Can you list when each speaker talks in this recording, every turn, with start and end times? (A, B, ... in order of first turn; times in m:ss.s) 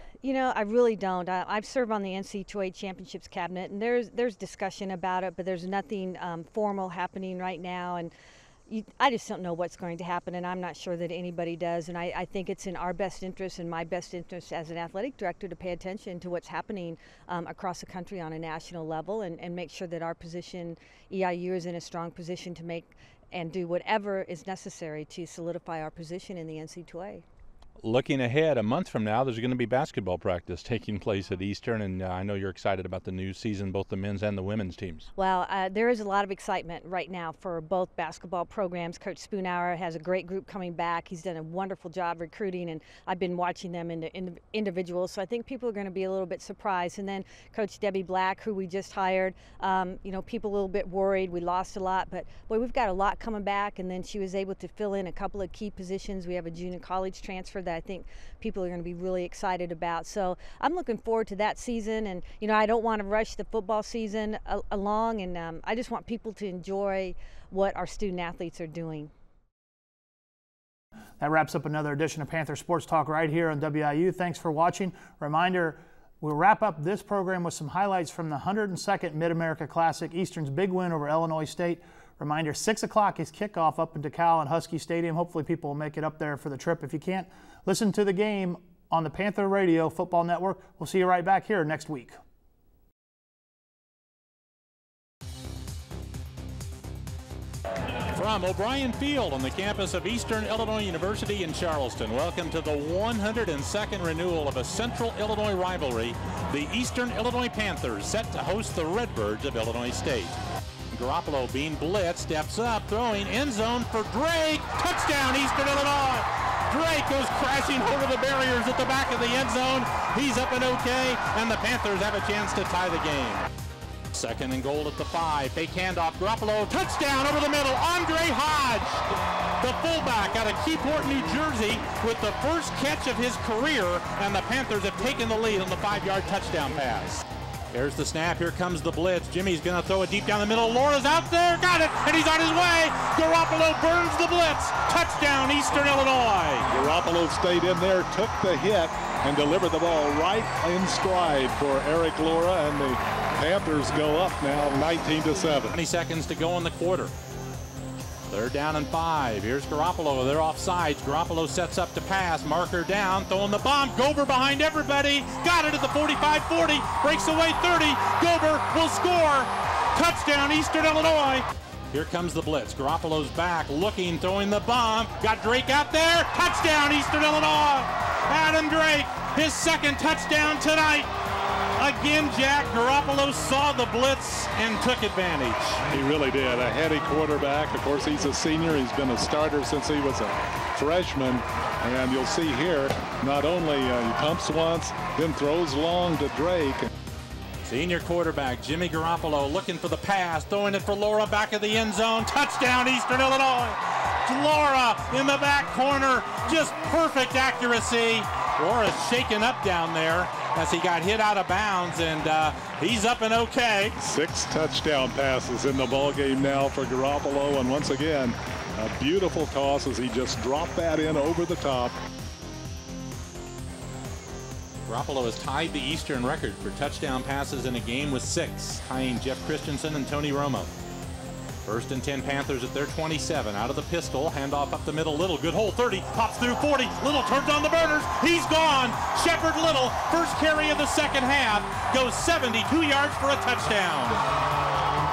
0:00.2-0:08.1 A
0:08.7-0:27.2 A
0:27.8-0:35.1 B
0:35.2-1:09.1 A
1:11.2-1:32.2 C
1:38.1-1:50.3 B
1:50.9-2:03.5 B
2:04.1-2:26.6 B
2:26.7-2:35.8 D
2:35.7-2:37.1 B
2:38.3-3:01.1 B
3:01.8-3:05.8 B
3:05.9-3:16.9 D
3:17.6-3:33.9 B
3:34.0-3:42.0 D
3:44.9-3:50.7 B
3:51.6-4:04.2 B